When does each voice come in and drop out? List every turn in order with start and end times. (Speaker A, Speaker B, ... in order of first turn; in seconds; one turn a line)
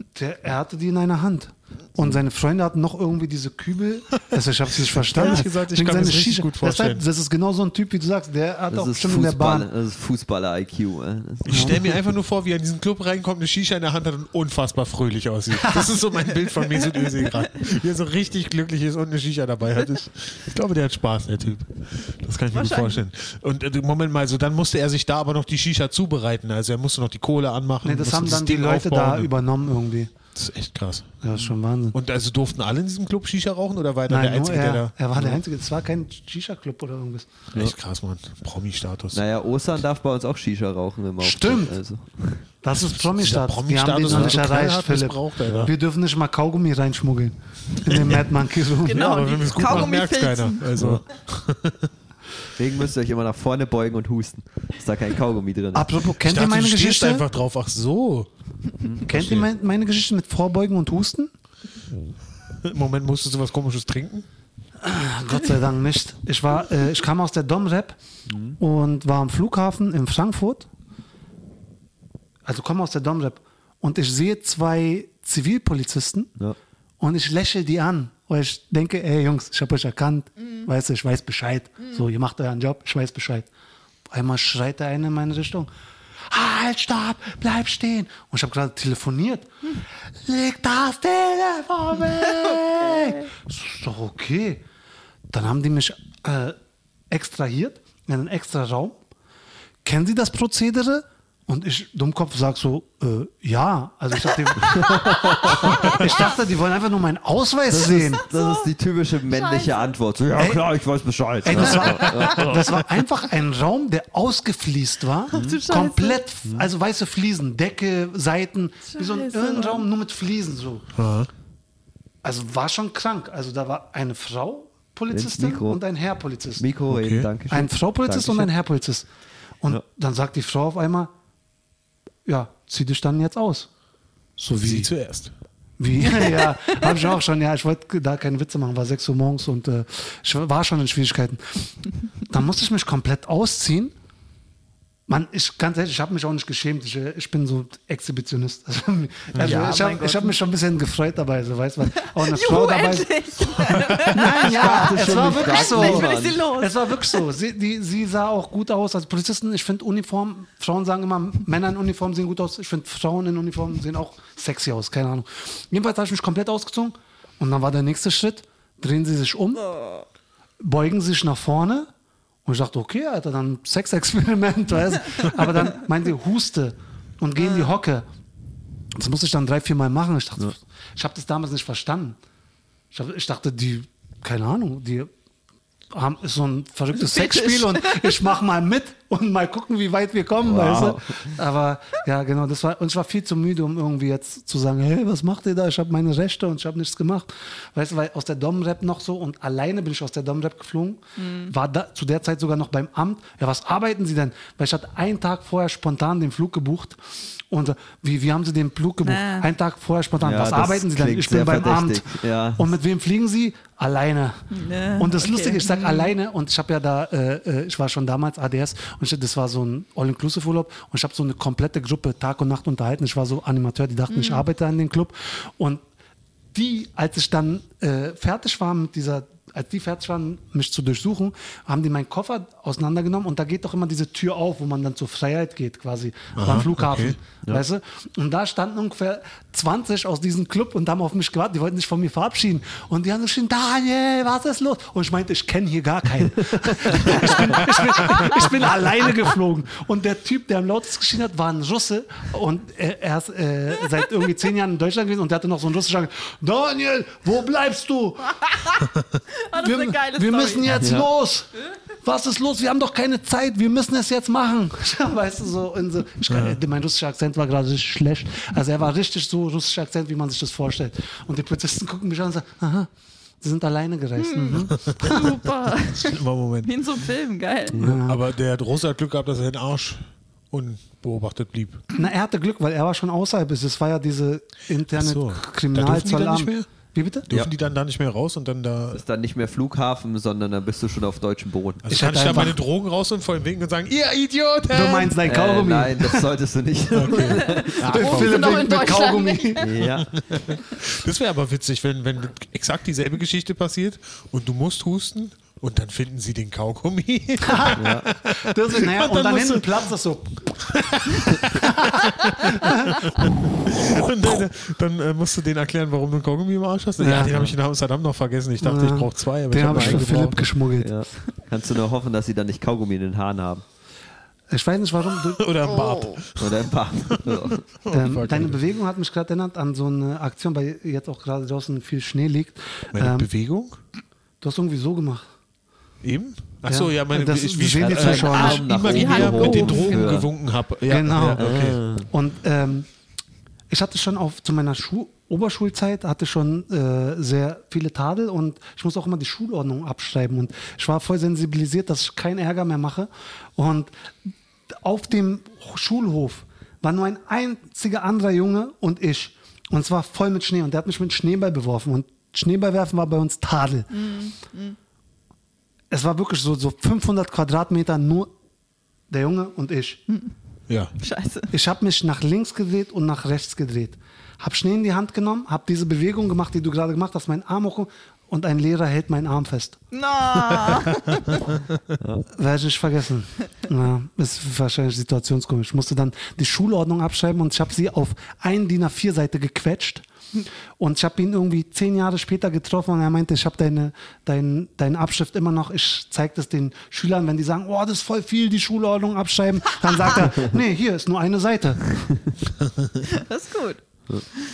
Speaker A: 0.1-9.7
Speaker B: 4.8-7.0
Speaker C: 8.7-11.9
Speaker B: 11.5-29.3
Speaker A: 11.5-11.8
Speaker A: 15.5-16.0
Speaker D: 22.5-23.0
Speaker A: 27.8-30.1
Speaker B: 30.4-31.2
Speaker A: 31.2-31.9
Speaker B: 31.9-35.4
Speaker A: 34.1-37.3
Speaker B: 37.5-39.2
Speaker C: 39.1-42.4
Speaker A: 41.2-41.8
Speaker A: 42.6-49.2
Speaker B: 42.7-45.7
Speaker C: 44.1-44.4
Speaker B: 47.9-48.2
Speaker D: 48.8-50.7
Speaker B: 48.9-51.9
Speaker C: 50.8-51.0
Speaker C: 52.6-55.9
Speaker A: 55.7-57.3
Speaker B: 56.2-58.3
Speaker C: 58.8-59.4
Speaker A: 59.0-61.3
Speaker B: 59.1-59.4
Speaker B: 62.6-64.3
Speaker A: 64.8-68.0
Speaker C: 68.3-68.6
Speaker A: 68.6-70.7
Speaker A: 72.5-76.3
Speaker A: 77.0-83.5
Speaker A: 84.1-85.7
Speaker A: 86.3-89.5
Speaker A: 90.2-94.6
Speaker A: 95.3-96.6
Speaker A: 97.1-99.0
Speaker A: 99.8-108.2
Speaker C: 104.6-106.1
Speaker C: 107.7-112.6
Speaker D: 108.3-108.7
Speaker D: 109.3-109.9
Speaker A: 110.4-110.7
Speaker A: 111.4-120.9
Speaker B: 111.6-112.8
Speaker D: 115.3-116.2
Speaker C: 115.3-115.6
Speaker D: 118.9-119.8
Speaker B: 121.0-121.3
Speaker A: 122.2-126.7
Speaker C: 125.1-125.8
Speaker C: 126.6-128.5
Speaker B: 126.9-127.3
Speaker A: 127.5-129.1
Speaker A: 129.6-131.1
Speaker A: 132.3-133.7
Speaker A: 134.4-134.9
Speaker B: 134.6-135.3
Speaker A: 135.8-141.7
Speaker A: 142.3-143.9
Speaker A: 145.1-169.7
Speaker B: 149.3-149.6
Speaker C: 149.4-150.3
Speaker D: 152.1-157.2
Speaker C: 154.3-156.4
Speaker A: 170.6-171.9
Speaker A: 172.4-178.1
Speaker A: 178.9-182.2
Speaker A: 182.9-185.1
Speaker A: 185.9-214.4
Speaker D: 187.0-188.2
Speaker C: 190.4-191.3
Speaker D: 201.2-201.5
Speaker D: 209.0-209.5
Speaker C: 210.2-212.7
Speaker D: 214.5-216.1
Speaker A: 215.0-225.8
Speaker D: 224.1-224.4
Speaker A: 226.5-258.6
Speaker B: 236.4-237.2
Speaker C: 246.9-247.2
Speaker B: 247.1-247.5
Speaker B: 248.1-248.3
Speaker D: 258.4-260.7
Speaker A: 259.6-261.5
Speaker C: 260.7-261.1
Speaker A: 262.0-272.9
Speaker B: 266.3-266.6
Speaker A: 273.4-275.3
Speaker D: 274.2-277.8
Speaker B: 274.8-275.3
Speaker B: 275.9-276.7
Speaker A: 277.7-278.2
Speaker B: 277.8-281.9
Speaker A: 281.9-287.3
Speaker B: 284.9-286.7
Speaker B: 287.3-289.0
Speaker C: 288.9-291.9
Speaker B: 291.8-295.1
Speaker A: 291.9-292.6
Speaker A: 294.7-296.3
Speaker C: 295.2-297.8
Speaker B: 296.9-298.6
Speaker D: 297.2-299.7
Speaker A: 297.9-299.7
Speaker C: 299.6-300.1
Speaker B: 299.8-309.8
Speaker A: 307.4-310.5
Speaker C: 307.8-308.1
Speaker B: 310.6-320.5
Speaker A: 311.3-313.1
Speaker A: 317.0-317.4
Speaker C: 317.2-317.6
Speaker A: 318.6-320.9
Speaker C: 319.7-320.1
Speaker C: 320.8-323.6
Speaker A: 324.5-325.4
Speaker B: 325.3-328.6
Speaker D: 325.7-326.2
Speaker C: 326.4-327.6
Speaker A: 327.9-333.3
Speaker B: 332.9-333.8
Speaker A: 334.4-335.2
Speaker B: 336.0-341.8
Speaker A: 336.7-338.6
Speaker C: 337.8-340.3
Speaker D: 338.1-340.1
Speaker A: 340.9-341.5
Speaker C: 341.4-342.1
Speaker A: 342.1-342.9
Speaker A: 343.7-353.9
Speaker A: 354.7-363.9
Speaker D: 363.9-364.8
Speaker A: 365.9-368.3
Speaker A: 369.1-370.0
Speaker B: 370.7-370.9
Speaker D: 371.0-371.5
Speaker A: 371.5-379.8
Speaker D: 379.9-381.5
Speaker B: 380.8-381.1
Speaker C: 382.0-382.2
Speaker A: 382.3-390.1
Speaker A: 390.8-402.0
Speaker D: 403.1-403.8